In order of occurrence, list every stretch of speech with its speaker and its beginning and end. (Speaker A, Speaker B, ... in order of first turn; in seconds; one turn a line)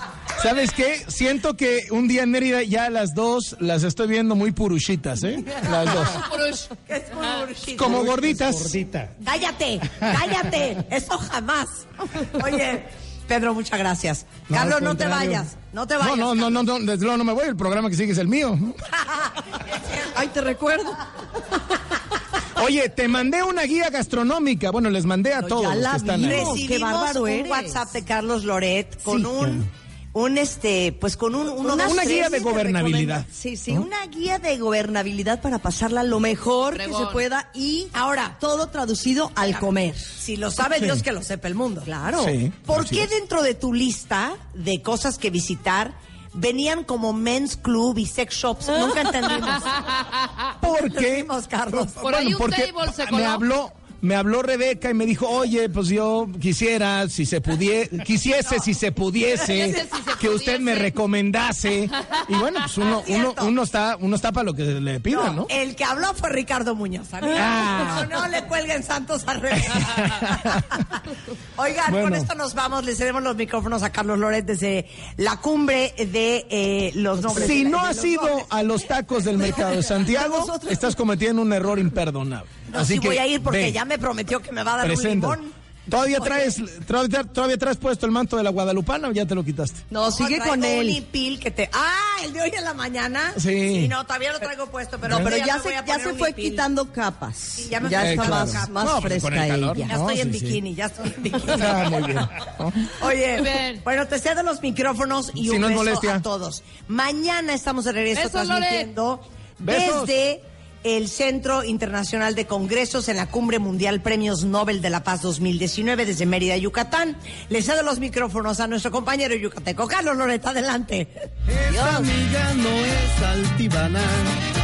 Speaker A: 0.4-6.3
Speaker B: 5.6-6.2
Speaker C: 5.7-6.7
Speaker B: 6.7-8.0
Speaker A: 7.7-8.8
Speaker D: 7.8-9.2
Speaker B: 9.2-16.7
Speaker D: 10.1-10.4
Speaker D: 14.5-15.5
Speaker A: 16.0-18.8
Speaker B: 19.0-20.0
Speaker E: 20.0-21.1
Speaker A: 22.6-26.6
Speaker E: 25.4-27.9
Speaker B: 26.2-33.2
Speaker E: 29.0-29.6
Speaker E: 31.6-40.1
Speaker A: 31.8-33.9
Speaker C: 36.7-37.2
Speaker B: 37.9-38.4
Speaker B: 40.2-41.9
Speaker A: 40.8-41.0
Speaker E: 41.9-42.4
Speaker A: 42.2-43.1
Speaker B: 42.6-49.9
Speaker C: 49.8-50.4
Speaker B: 50.6-52.0
Speaker A: 50.6-65.5
Speaker C: 52.0-53.5
Speaker C: 59.3-60.9
Speaker B: 59.4-59.7
Speaker C: 62.0-62.7
Speaker B: 62.8-63.5
Speaker B: 65.1-71.0
Speaker A: 67.3-68.1
Speaker B: 71.6-78.1
Speaker A: 71.9-72.3
Speaker E: 77.2-78.4
Speaker A: 77.3-83.8
Speaker E: 80.0-81.0
Speaker B: 82.7-85.5
Speaker A: 84.8-89.8
Speaker E: 89.9-91.0
Speaker B: 90.1-96.7
Speaker A: 93.4-93.9
Speaker A: 95.1-95.3
Speaker E: 95.1-99.9
Speaker B: 97.5-99.0
Speaker A: 97.9-100.6
Speaker B: 99.8-121.1
Speaker A: 101.4-102.9
Speaker C: 103.4-103.8
Speaker A: 105.4-106.2
Speaker C: 108.1-108.9
Speaker A: 109.6-110.1
Speaker E: 121.7-122.2